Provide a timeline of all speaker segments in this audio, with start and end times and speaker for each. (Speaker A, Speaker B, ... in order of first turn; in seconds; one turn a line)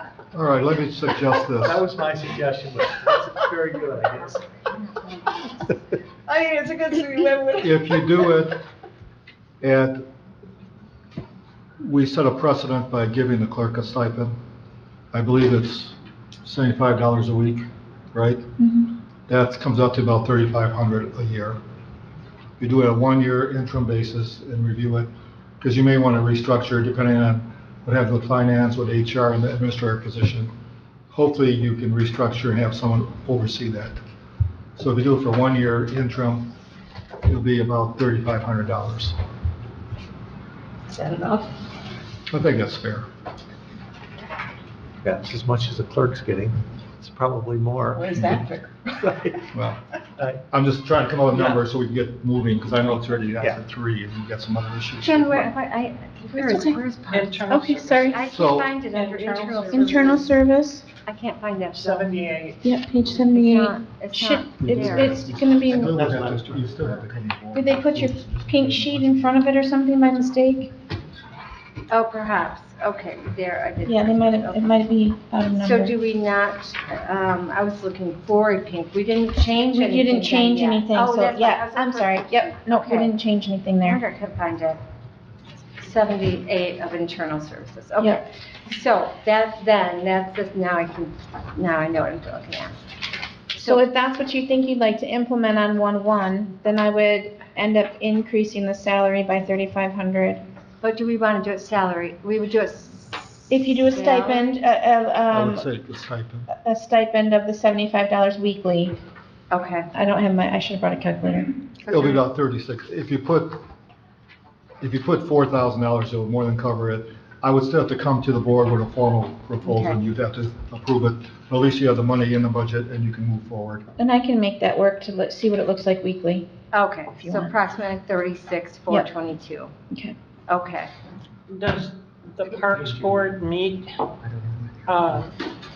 Speaker A: 0.3-1.8
Speaker B: 1.6-4.5
Speaker C: 6.3-8.3
Speaker A: 7.6-8.6
Speaker A: 9.6-10.0
Speaker A: 11.8-14.4
Speaker A: 15.1-18.4
Speaker D: 18.6-18.9
Speaker A: 19.3-21.6
Speaker A: 22.6-25.1
Speaker A: 25.6-30.5
Speaker A: 31.1-34.0
Speaker A: 34.8-36.5
Speaker A: 37.2-39.2
Speaker C: 40.9-41.5
Speaker A: 42.3-43.1
Speaker B: 45.0-49.4
Speaker C: 47.9-48.9
Speaker A: 49.5-49.8
Speaker A: 50.5-55.5
Speaker E: 55.0-57.5
Speaker D: 56.4-56.6
Speaker F: 57.1-58.3
Speaker D: 57.5-58.2
Speaker E: 58.0-60.4
Speaker A: 58.3-58.7
Speaker C: 59.0-60.2
Speaker F: 59.0-59.5
Speaker D: 59.7-60.9
Speaker E: 61.1-62.1
Speaker F: 61.8-62.6
Speaker D: 62.6-66.0
Speaker E: 63.3-65.2
Speaker A: 64.7-69.0
Speaker B: 65.8-67.0
Speaker D: 67.5-70.7
Speaker E: 71.9-74.7
Speaker D: 73.8-76.0
Speaker E: 75.5-83.1
Speaker D: 79.7-84.0
Speaker E: 83.8-84.8
Speaker E: 85.8-92.8
Speaker E: 93.5-93.8
Speaker D: 93.6-100.4
Speaker E: 100.8-104.5
Speaker D: 103.5-105.7
Speaker A: 105.3-106.5
Speaker D: 106.5-109.0
Speaker E: 109.5-109.9
Speaker D: 109.9-111.5
Speaker E: 111.8-112.2
Speaker A: 111.9-113.6
Speaker A: 114.8-123.8
Speaker E: 119.6-120.0
Speaker D: 124.0-126.5
Speaker E: 126.7-129.7
Speaker D: 127.2-127.5
Speaker E: 130.5-130.9
Speaker F: 131.5-134.0
Speaker F: 134.8-135.3